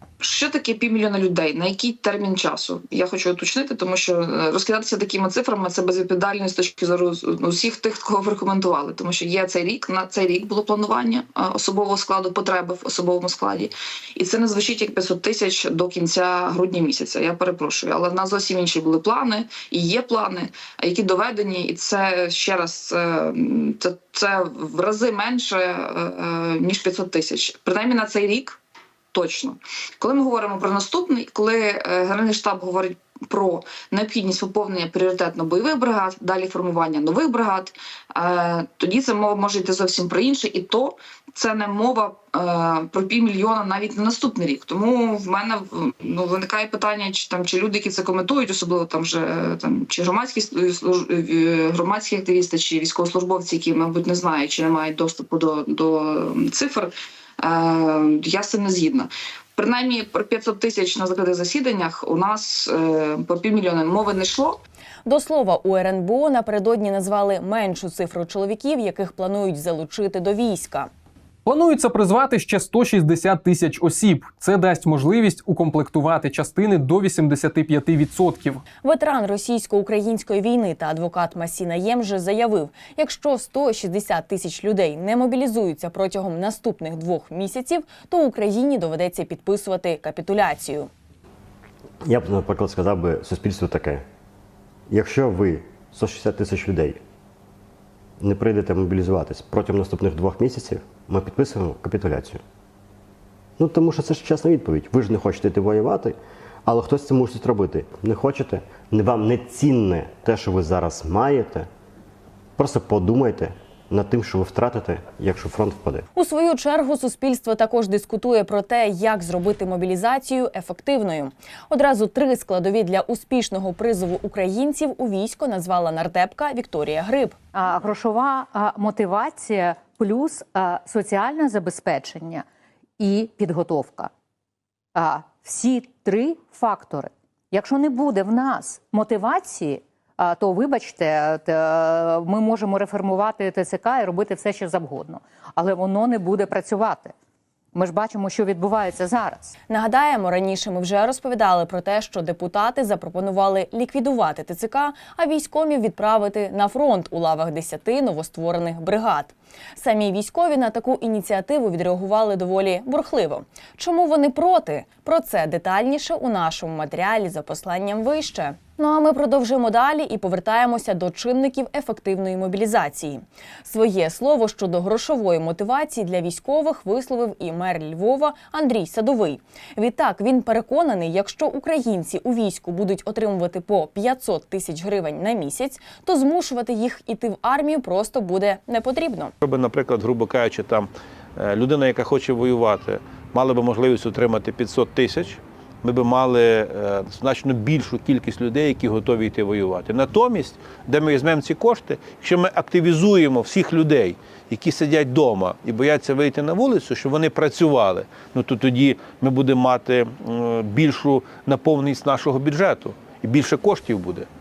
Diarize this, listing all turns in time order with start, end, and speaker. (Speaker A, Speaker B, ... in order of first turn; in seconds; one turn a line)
Speaker A: 0.2-28.6
Speaker A: 29.1-64.6
Speaker B: 65.0-70.9
Speaker C: 71.5-78.6
Speaker B: 78.8-90.9
Speaker D: 92.0-94.0
Speaker D: 94.9-97.0
Speaker D: 98.2-102.4
Speaker D: 103.6-111.7
Speaker D: 112.6-116.0
Speaker B: 116.1-127.3
Speaker E: 127.5-132.4
Speaker E: 133.0-134.1
Speaker E: 134.9-147.1
Speaker E: 147.7-149.5
Speaker B: 149.7-189.3
Speaker F: 189.4-214.3